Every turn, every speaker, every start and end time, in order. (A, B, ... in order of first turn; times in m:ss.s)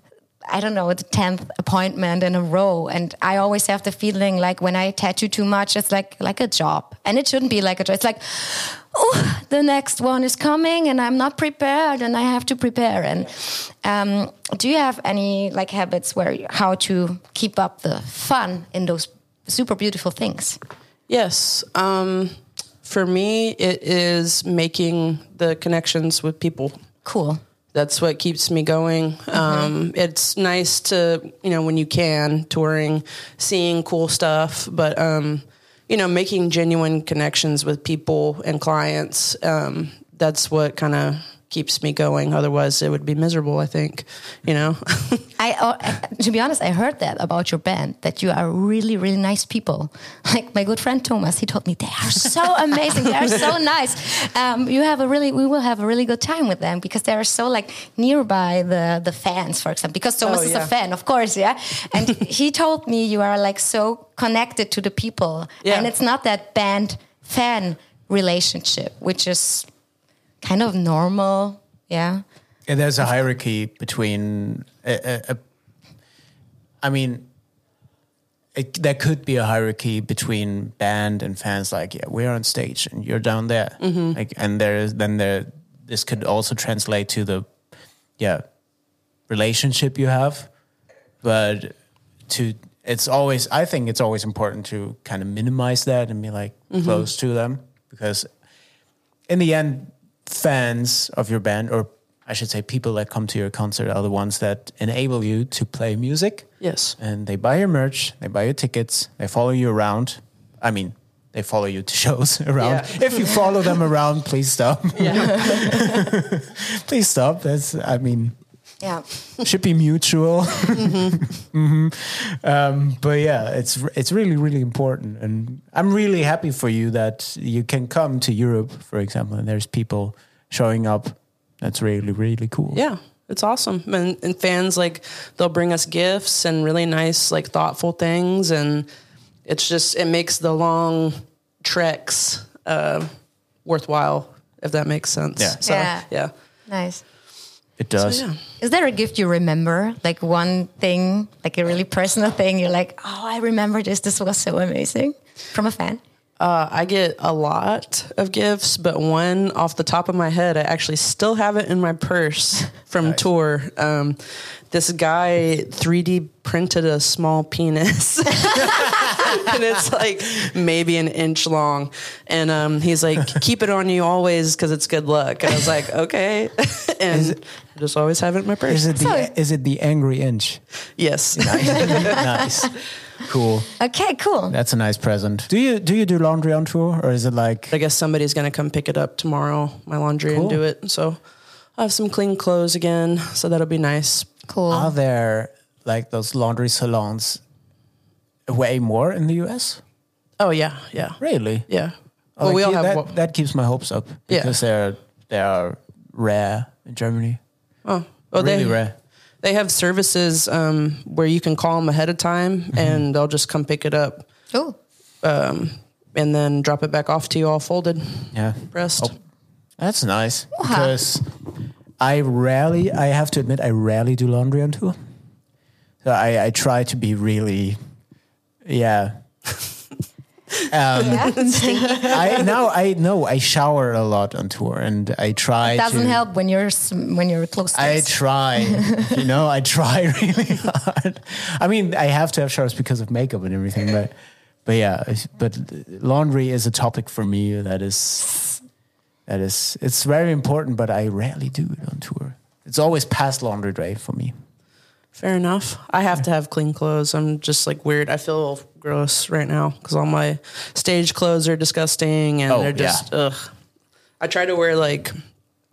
0:00.5-0:20.6 A
0:21.1-0:26.7 B
0:27.0-0:27.4 A
0:27.7-0:45.3 B
0:29.3-0:29.7 A
0:45.4-1:09.7 A
1:00.2-1:00.7 B
1:05.6-1:05.9 B
1:10.4-1:12.2 A
1:12.7-1:15.4 C
1:16.8-1:17.3 C
1:18.5-1:27.5 C
1:23.8-1:24.2 B
1:28.2-1:28.4 C
1:29.3-1:30.5 C
1:31.2-1:31.7 C
1:32.3-1:38.3 C
1:36.7-1:37.0 B
1:39.3-1:46.5 C
1:46.6-1:47.0 B
1:47.0-1:58.3 C
1:52.6-1:53.4 B
1:55.0-1:55.8 B
1:59.4-2:12.8 C
2:00.8-2:01.2 B
2:12.7-2:18.9 B
2:19.4-2:23.1 B
2:23.6-2:26.3 B
2:25.6-2:26.0 A
2:26.7-2:27.0 A
2:27.8-2:28.2 C
2:28.0-2:28.4 B
2:28.6-2:36.0 A
2:36.4-2:58.9 B
2:57.1-2:57.4 C
2:58.6-3:00.6 C
2:58.9-2:59.3 A
3:01.0-3:02.2 B
3:01.3-3:03.7 C
3:03.8-3:04.5 A
3:04.5-3:07.7 C
3:07.7-3:11.2 B
3:10.3-3:10.6 C
3:11.8-3:14.3 B
3:14.5-3:14.9 A
3:14.7-3:17.4 C
3:18.5-3:19.8 C
3:20.4-3:23.1 B
3:21.2-3:21.7 C
3:22.4-3:27.4 C
3:24.3-3:24.6 B
3:27.8-3:28.8 B
3:28.4-3:28.9 C
3:29.4-3:34.3 B
3:32.7-3:33.0 C
3:34.5-3:34.8 A
3:35.2-3:39.1 B
3:38.3-3:39.1 C
3:39.8-3:41.2 C
3:40.5-3:40.9 A
3:42.0-3:45.0 C
3:46.0-3:47.8 C
3:48.6-3:49.1 C
3:50.7-3:51.4 C
3:50.9-3:52.4 A
3:51.1-3:52.5 B
3:52.0-3:56.2 C
3:55.6-3:59.1 A
3:57.7-4:04.1 C
4:04.6-4:08.6 C
4:09.3-4:14.3 C
4:15.2-4:23.5 B
4:22.5-4:23.0 C
4:24.2-4:25.1 B